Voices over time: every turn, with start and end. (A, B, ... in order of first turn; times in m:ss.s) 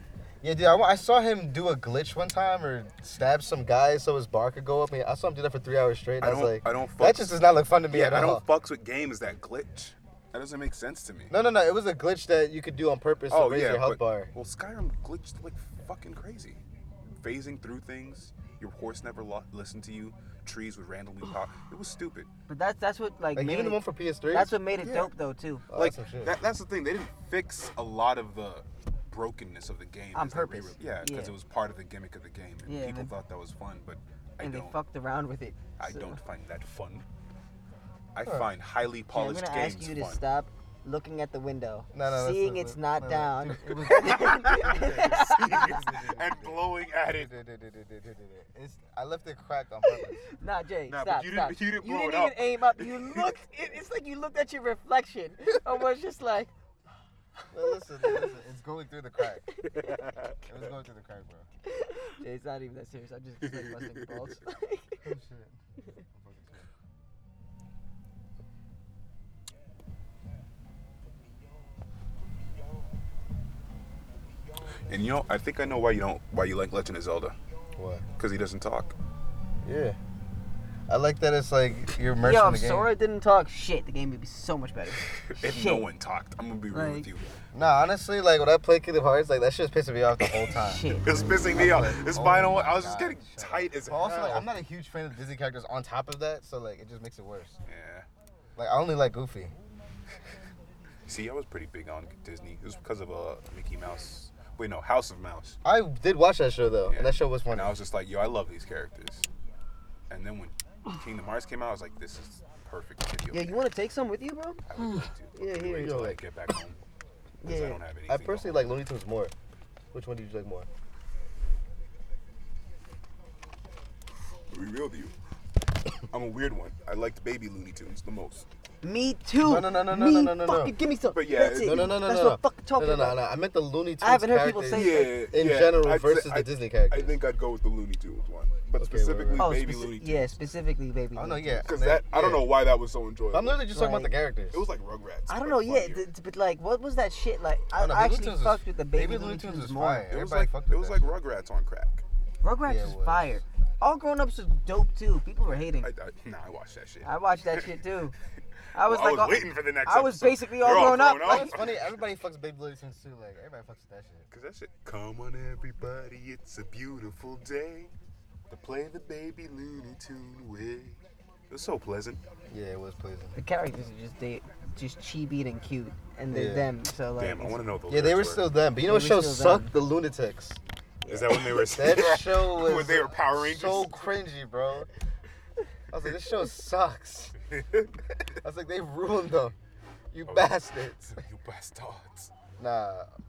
0:00.4-0:08.4 A
0:06.2-0:07.4 B
0:07.9-0:11.3 B
0:11.3-0:14.3 A
0:13.3-0:22.3 B
0:22.5-0:23.8 C
0:23.4-0:24.5 A
0:24.3-0:25.6 C
0:24.8-0:25.1 B
0:25.7-0:26.4 A
0:25.7-0:34.8 B
0:30.1-0:31.4 C
0:32.6-0:33.1 C
0:34.4-0:36.2 C
0:35.8-0:37.1 B
0:38.2-0:40.2 B
0:39.1-0:45.7 C
0:41.9-0:50.3 A
0:44.0-0:47.3 B
0:50.2-0:56.5 C
0:50.9-0:53.3 B
0:57.5-0:59.5 A
0:59.5-1:00.0 C
0:59.8-1:00.3 B
1:00.5-1:01.5 A
1:01.7-1:05.0 C
1:03.4-1:04.2 B
1:05.0-1:05.6 A
1:06.1-1:06.7 A
1:14.9-1:17.4 B
1:17.8-1:18.1 A
1:18.2-1:19.0 B
1:19.6-1:20.0 A
1:20.9-1:22.9 A
1:22.2-1:25.9 C
1:25.3-1:27.8 B
1:26.7-1:27.1 C
1:27.5-1:37.6 A
1:30.6-1:31.3 C
1:31.0-1:34.5 B
1:37.7-1:38.1 B
1:38.6-1:39.5 A
1:41.1-1:45.6 B
1:45.6-1:47.8 A
1:46.9-1:49.3 B
1:50.1-1:53.6 B
1:53.3-1:54.6 C
1:54.7-1:56.8 B
1:55.4-1:56.0 C
1:55.7-1:56.2 A
1:57.4-1:57.8 C
1:57.4-1:58.6 B
1:58.1-1:59.3 A
1:59.9-2:00.7 A
2:04.5-2:05.2 B
2:06.1-2:08.5 B
2:08.8-2:13.2 C
2:09.4-2:10.7 A
2:11.1-2:11.9 B
2:11.5-2:17.2 A
2:14.0-2:15.2 C
2:14.7-2:20.4 B
2:18.8-2:19.6 A
2:19.4-2:21.7 C
2:21.2-2:22.6 A
2:21.6-2:23.7 B
2:23.3-2:24.6 A
2:23.7-2:24.1 C
2:24.5-2:26.1 B
2:25.3-2:30.1 C
2:27.7-2:31.1 A
2:30.1-2:32.0 B
2:32.4-2:35.9 C
2:32.6-2:33.4 A
2:35.6-2:37.8 B
2:37.0-2:38.2 C
2:38.7-2:41.5 C
2:38.8-2:42.1 B
2:41.2-2:44.3 A
2:44.3-2:47.9 B
2:48.5-2:52.2 B
2:52.5-2:53.4 A
2:53.4-2:57.6 C
2:56.3-2:56.7 A
2:57.2-2:58.5 B
2:57.9-3:04.9 A
2:58.8-2:59.7 C
3:01.1-3:04.0 B
3:05.9-3:07.4 A
3:07.5-3:07.9 B
3:08.1-3:09.6 A
3:10.1-3:11.2 A
3:10.3-3:12.3 B
3:12.6-3:13.1 A